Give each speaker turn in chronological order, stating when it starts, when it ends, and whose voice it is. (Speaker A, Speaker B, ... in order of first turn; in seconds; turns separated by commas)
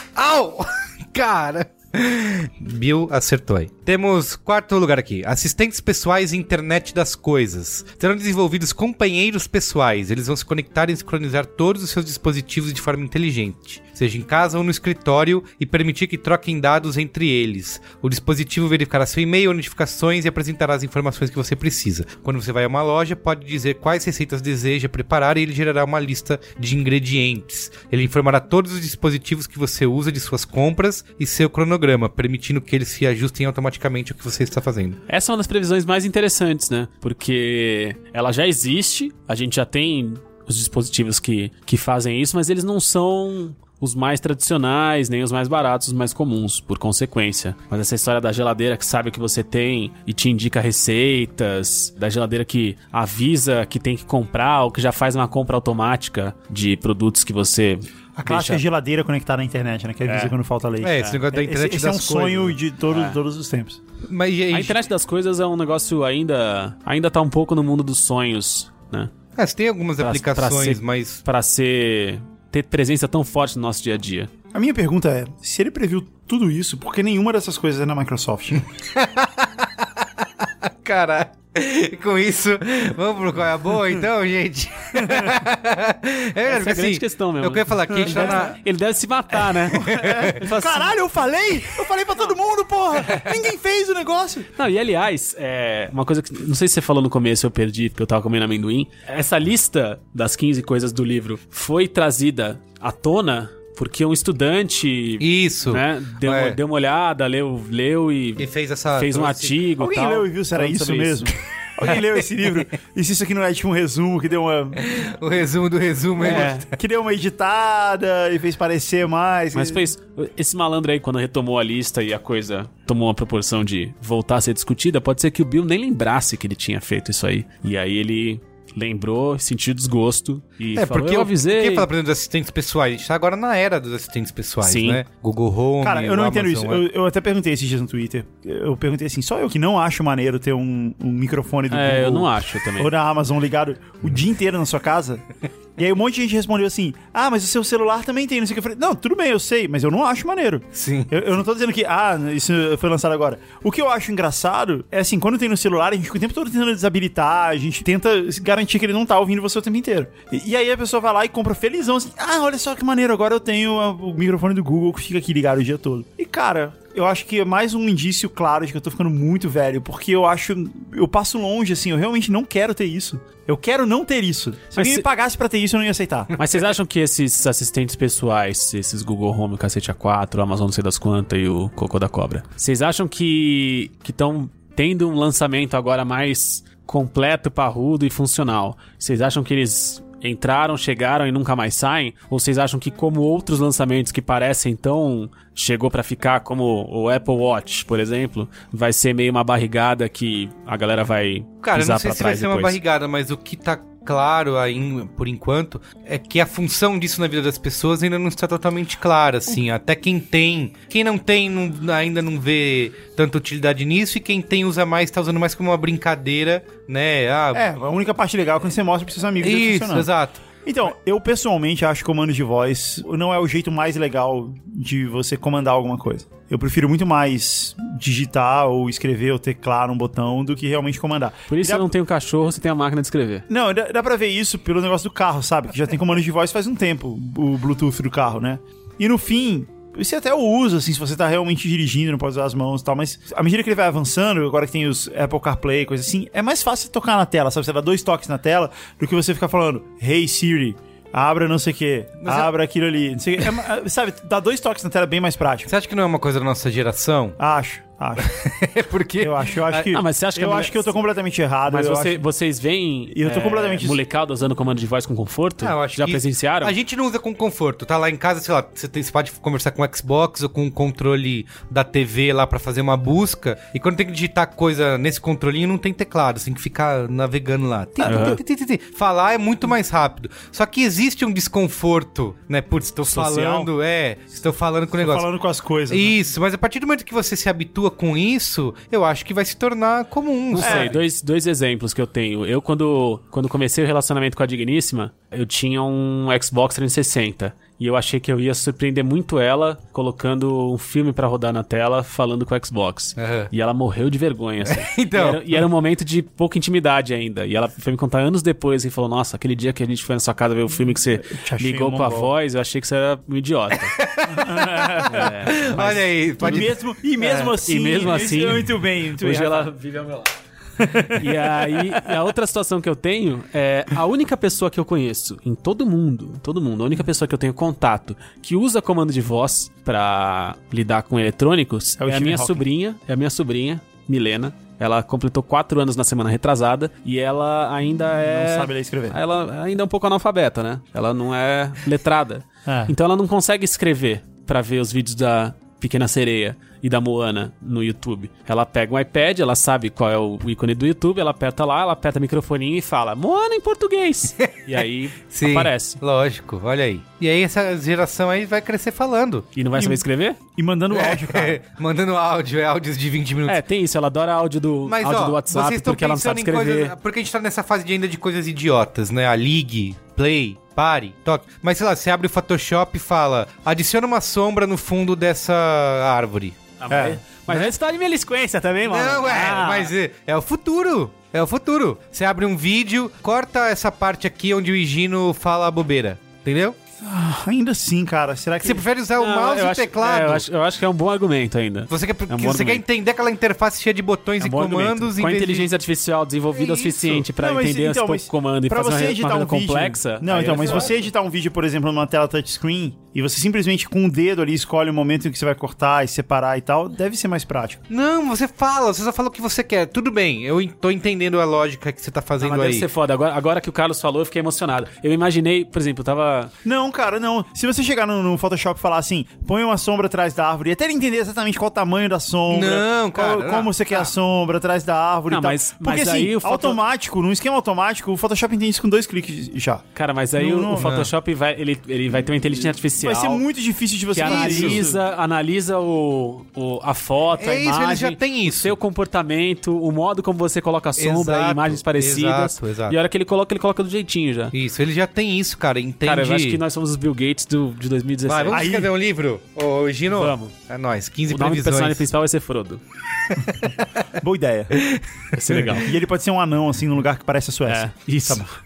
Speaker A: 0.1-35.0, Speaker B: 35.1-58.6, Speaker C: 58.2-63.8, Speaker B: 60.1-60.3, Speaker A: 60.8-62.6, Speaker B: 62.9-63.2, Speaker A: 64.0-64.8, Speaker B: 64.5-69.1, Speaker A: 69.4-71.2, Speaker B: 70.0-74.3, Speaker C: 74.5-78.6, Speaker A: 78.9-79.8, Speaker A: 80.8-88.6, Speaker B: 86.4-91.0, Speaker C: 88.0-88.4, Speaker A: 89.7-90.3, Speaker C: 89.7-94.5, Speaker B: 94.6-111.3, Speaker A: 105.2-106.6, Speaker A: 108.4-109.6, Speaker C: 109.8-114.8, Speaker A: 114.8-116.7, Speaker B: 116.2-116.7, Speaker C: 116.2-119.9, Speaker B: 119.5-131.9, Speaker A: 130.8-136.8, Speaker B: 134.6-135.0, Speaker C: 135.8-145.2, Speaker B: 141.7-142.9, Speaker C: 145.8-176.3, Speaker A: 150.7-151.1, Speaker B: 174.8-175.1, Speaker B: 176.4-202.8, Speaker A: 201.6-217.7, Speaker C: 217.5-220.1, Speaker A: 219.4-220.4, Speaker C: 220.6-231.9, Speaker B: 231.5-233.4, Speaker C: 233.5-255.7, Speaker A: 252.2-252.5, Speaker A: 255.7-257.4, Speaker C: 257.4-258.3, Speaker A: 258.2-260.0, Speaker C: 259.2-262.2, Speaker B: 259.9-260.9, Speaker B: 261.7-266.7, Speaker C: 263.1-264.0, Speaker A: 265.6-285.3, Speaker C: 278.0-278.3, Speaker B: 278.0-278.4, Speaker B: 283.1-283.6, Speaker C: 285.0-286.1, Speaker A: 285.9-290.9, Speaker B: 290.5-313.9, Speaker C: 290.6-291.0, Speaker A: 303.2-303.5, Speaker A: 304.6-305.6, Speaker C: 311.2-312.3, Speaker A: 313.9-316.8, Speaker C: 314.2-315.9, Speaker B: 315.0-316.6, Speaker C: 316.4-319.7, Speaker B: 317.2-320.3, Speaker C: 320.8-321.3, Speaker B: 321.1-356.0, Speaker C: 332.0-332.6, Speaker C: 338.2-339.2, Speaker C: 342.6-342.9, Speaker A: 354.4-354.7, Speaker A: 355.3-359.5, Speaker B: 359.5-360.4, Speaker C: 359.7-360.0, Speaker C: 360.5-361.6, Speaker A: 360.9-363.6, Speaker B: 363.4-366.9, Speaker A: 364.9-376.6, Speaker B: 376.8-379.9, Speaker C: 376.9-377.2, Speaker A: 378.9-386.8, Speaker C: 387.0-388.8, Speaker A: 388.6-390.5, Speaker B: 389.2-392.8, Speaker A: 391.9-395.7, Speaker B: 394.4-400.9, Speaker A: 396.5-397.2, Speaker C: 397.3-407.8, Speaker A: 400.3-400.9, Speaker A: 407.9-412.9, Speaker B: 412.4-416.5, Speaker C: 416.6-429.8, Speaker A: 422.5-424.0, Speaker B: 425.3-426.8, Speaker B: 429.9-433.4, Speaker C: 430.4-431.0, Speaker A: 430.8-431.1, Speaker C: 432.9-435.0, Speaker B: 434.1-444.5, Speaker A: 434.2-434.8, Speaker A: 437.4-438.7, Speaker A: 441.0-443.0, Speaker A: 444.5-446.6, Speaker B: 446.0-448.6, Speaker A: 448.3-452.1, Speaker C: 448.5-448.9, Speaker B: 450.1-450.5, Speaker B: 451.3-452.8, Speaker C: 454.2-454.8, Speaker A: 454.8-455.7, Speaker B: 455.3-455.9, Speaker C: 455.7-458.4, Speaker B: 457.7-458.4